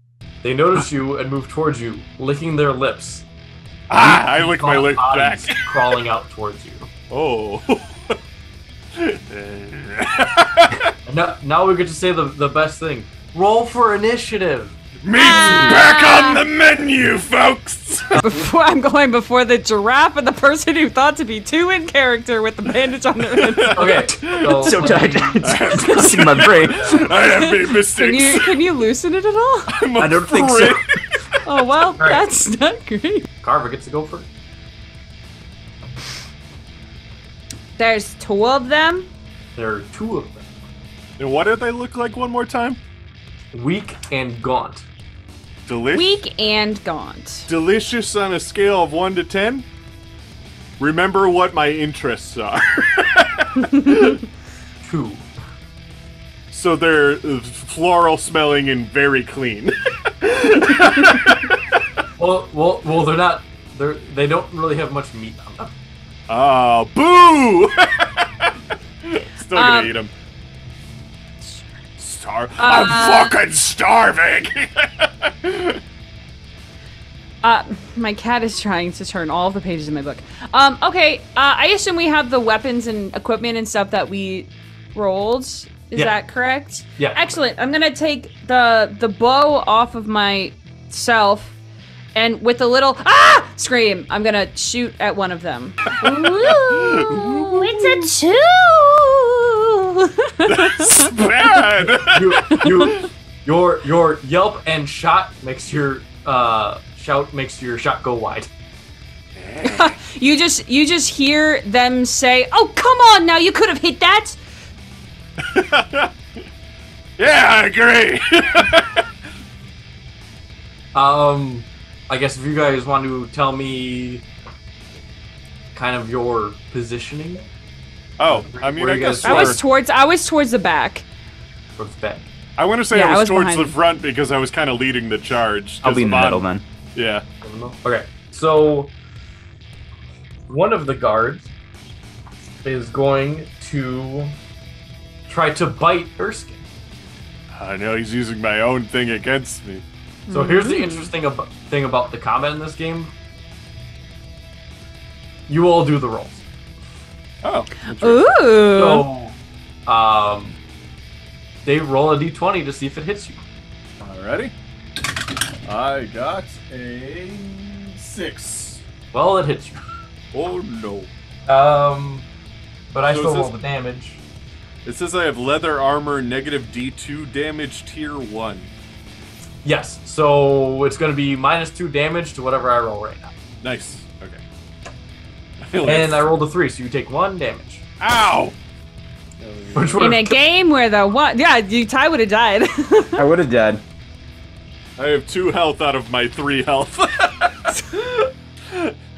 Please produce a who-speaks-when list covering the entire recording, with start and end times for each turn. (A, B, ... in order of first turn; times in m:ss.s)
0:00.4-0:03.2 A
0:03.9-0:05.7 B
0:03.9-0:06.9 A
0:07.1-0:08.2 B
0:09.0-0:10.9 B
0:11.1-0:15.8 A
0:15.0-0:18.2 B
0:15.2-0:16.4 C
0:18.2-0:23.9 C
0:23.3-0:28.6 B
0:23.7-0:25.7 A
0:24.4-0:27.2 D
0:25.9-0:26.3 C
0:26.6-0:27.0 A
0:27.1-0:29.7 C
0:29.7-0:31.3 B
0:30.0-0:31.0 D
0:31.4-0:33.3 C
0:32.0-0:32.2 A
0:33.4-0:34.3 A
0:37.8-0:39.1 C
0:39.6-0:40.5 A
0:41.2-0:42.8 B
0:43.5-0:44.8 A
0:45.6-0:46.1 B
0:45.9-0:47.5 C
0:47.5-0:49.6 B
0:50.8-0:54.2 B
0:54.8-0:55.2 A
0:56.5-1:01.6 B
1:02.2-1:05.7 A
1:06.3-1:08.5 B
1:09.0-1:10.1 B
1:09.5-1:09.9 C
1:11.4-1:15.8 B
1:12.6-1:13.4 C
1:17.4-1:31.5 C
1:27.0-1:27.3 A
1:32.1-1:41.7 C
1:35.9-1:38.1 B
1:40.4-1:43.1 B
1:42.0-1:48.5 A
1:42.6-1:42.9 C
1:49.4-1:49.9 B
1:49.6-1:54.4 C
1:55.4-1:56.1 B
1:57.2-1:59.0 B
2:00.9-2:04.2 A
2:05.7-2:07.4 A
2:08.2-2:09.6 B
2:08.3-2:09.6 A
2:09.2-2:11.0 C
2:11.8-2:12.3 A
2:12.6-2:17.2 B
2:12.9-2:13.8 C
2:15.8-2:16.6 D
2:17.4-2:18.9 A
2:20.5-2:21.5 A
2:22.6-2:24.3 A
2:25.3-2:26.6 A
2:27.5-2:29.8 B
2:30.3-2:31.1 C
2:30.3-2:33.1 A
2:35.5-2:36.4 A
2:37.4-2:38.5 B
2:38.0-2:39.1 C
2:38.7-2:39.3 A
2:39.8-2:40.6 A
2:41.6-2:43.4 A
2:44.0-2:44.5 B
2:45.6-2:48.8 B
2:49.1-2:49.8 A
2:50.3-2:51.1 B
2:51.5-2:52.2 A
2:52.9-2:54.2 A
2:53.1-2:53.5 B
2:54.8-2:58.7 B
2:59.6-3:03.3 A
3:03.6-3:04.4 B
3:05.6-3:06.3 B
3:05.8-3:07.8 A
3:08.0-3:08.6 B
3:09.4-3:10.3 B
3:09.7-3:10.3 A
3:10.0-3:13.3 C
3:13.2-3:13.8 D
3:15.0-3:18.9 B